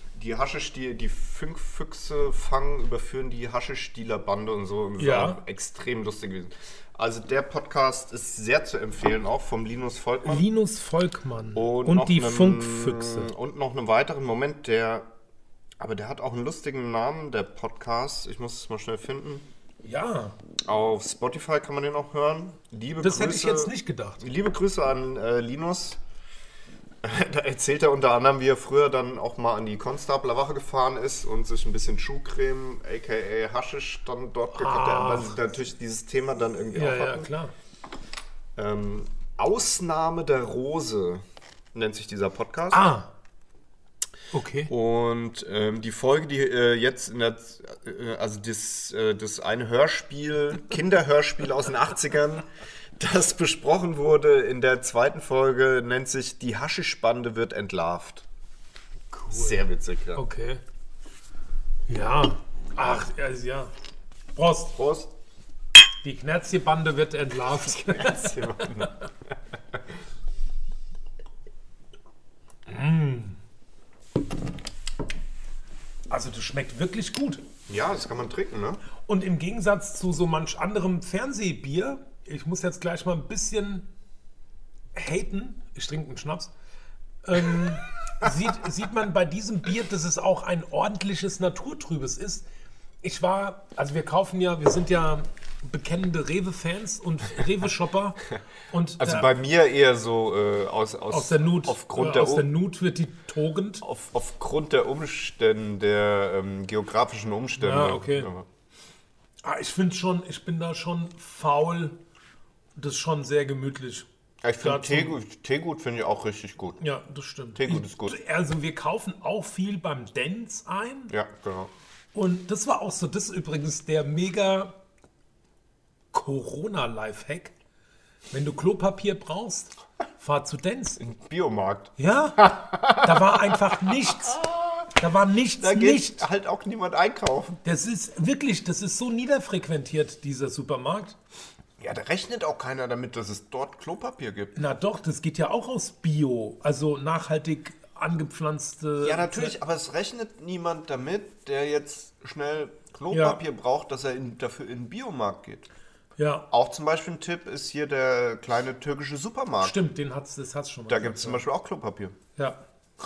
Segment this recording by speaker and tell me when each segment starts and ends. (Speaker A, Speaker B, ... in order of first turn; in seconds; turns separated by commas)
Speaker A: 0.1-10.4, Speaker B: 5.0-5.4, Speaker B: 10.2-13.3, Speaker A: 11.5-15.1, Speaker A: 15.8-19.4, Speaker B: 19.8-20.4, Speaker A: 20.6-26.0, Speaker B: 23.0-24.2, Speaker A: 27.0-37.3, Speaker B: 34.5-35.3, Speaker B: 36.7-37.5, Speaker A: 38.5-42.9, Speaker B: 42.7-43.1, Speaker B: 44.3-44.7, Speaker A: 44.7-58.2, Speaker B: 59.1-60.6, Speaker A: 59.3-60.2, Speaker B: 61.9-63.7, Speaker B: 64.3-64.7, Speaker A: 64.7-65.1, Speaker B: 66.0-68.9, Speaker A: 67.7-68.9, Speaker B: 72.7-73.4, Speaker B: 76.1-77.4, Speaker A: 77.7-78.8, Speaker B: 79.0-83.9, Speaker B: 84.9-86.5, Speaker B: 87.2-92.5, Speaker B: 93.0-99.3, Speaker A: 99.0-102.5, Speaker B: 101.1-103.8, Speaker A: 103.8-108.5, Speaker B: 107.6-108.3, Speaker B: 109.4-112.0, Speaker B: 112.8-114.1, Speaker A: 114.4-116.8, Speaker B: 114.6-115.1, Speaker B: 116.8-121.1, Speaker A: 117.5-118.1, Speaker A: 121.1-121.7, Speaker B: 122.1-124.8, Speaker B: 126.1-127.5, Speaker B: 128.3-131.0, Speaker A: 131.0-134.9, Speaker B: 132.0-134.4, Speaker B: 134.9-136.2, Speaker A: 135.6-137.6, Speaker B: 137.6-141.2, Speaker A: 141.8-144.6, Speaker B: 144.5-149.6, Speaker A: 149.0-155.7, Speaker B: 153.1-153.4, Speaker B: 156.2-156.4, Speaker A: 156.5-159.8, Speaker B: 159.6-161.4, Speaker A: 160.9-162.2